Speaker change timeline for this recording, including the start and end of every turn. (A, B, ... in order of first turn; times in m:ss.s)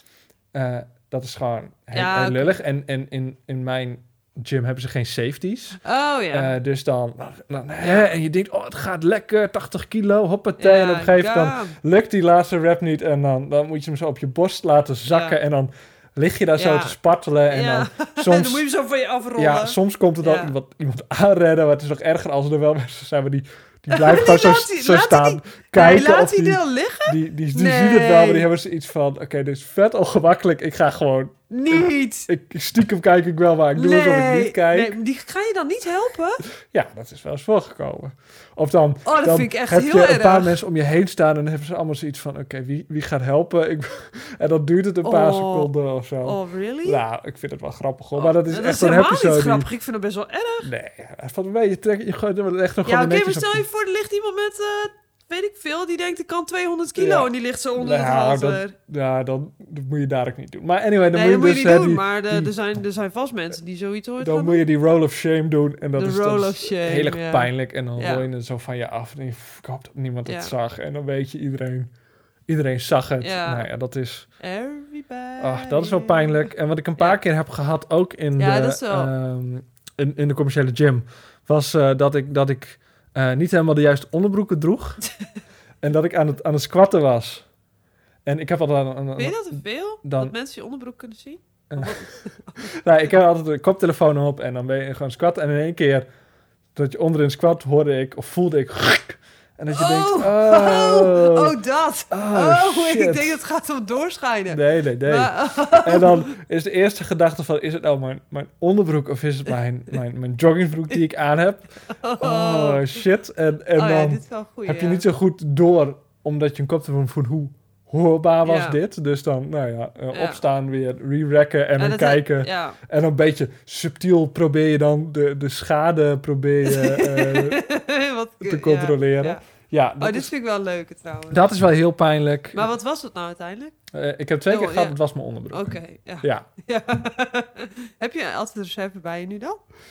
0:00.5-0:05.8 A
0:01.9-0:02.6 B
0:05.8-0:06.5 B
0:06.3-0:18.6 A
0:07.8-0:08.1 B
0:10.6-0:11.8 B
0:15.1-0:15.4 B
0:16.6-0:17.0 B
0:17.5-0:20.5 B
0:19.4-0:35.0 A
0:23.9-0:28.4 B
0:31.5-0:32.3 B
0:33.8-0:36.4 B
0:36.6-0:49.7 A
0:39.0-0:40.6 B
0:45.0-0:45.7 B
0:46.2-0:47.0 B
0:48.2-0:50.7 B
0:50.6-0:53.6 A
0:52.8-0:58.8 B
0:57.0-1:02.5 A
1:01.1-1:04.6 B
1:04.2-1:11.9 A
1:06.0-1:08.3 B
1:10.2-1:10.5 B
1:12.5-1:14.3 A
1:13.2-1:13.7 B
1:14.4-1:16.4 B
1:15.4-1:25.0 A
1:18.4-1:19.1 B
1:25.8-1:27.5 A
1:28.2-1:30.3 A
1:29.2-1:32.8 B
1:31.7-1:32.0 A
1:32.7-1:36.1 A
1:36.8-1:41.6 A
1:39.7-1:46.3 B
1:42.1-1:43.4 A
1:44.5-1:51.7 A
1:52.0-1:53.0 B
1:52.2-2:07.6 A
1:53.8-1:55.0 B
1:58.4-1:58.8 B
2:00.1-2:00.4 B
2:01.8-2:02.8 B
2:06.6-2:09.4 B
2:08.4-2:10.3 A
2:10.0-2:11.5 B
2:11.3-2:12.7 A
2:12.5-2:13.7 B
2:13.9-2:16.5 A
2:14.5-2:15.0 B
2:15.5-2:19.6 B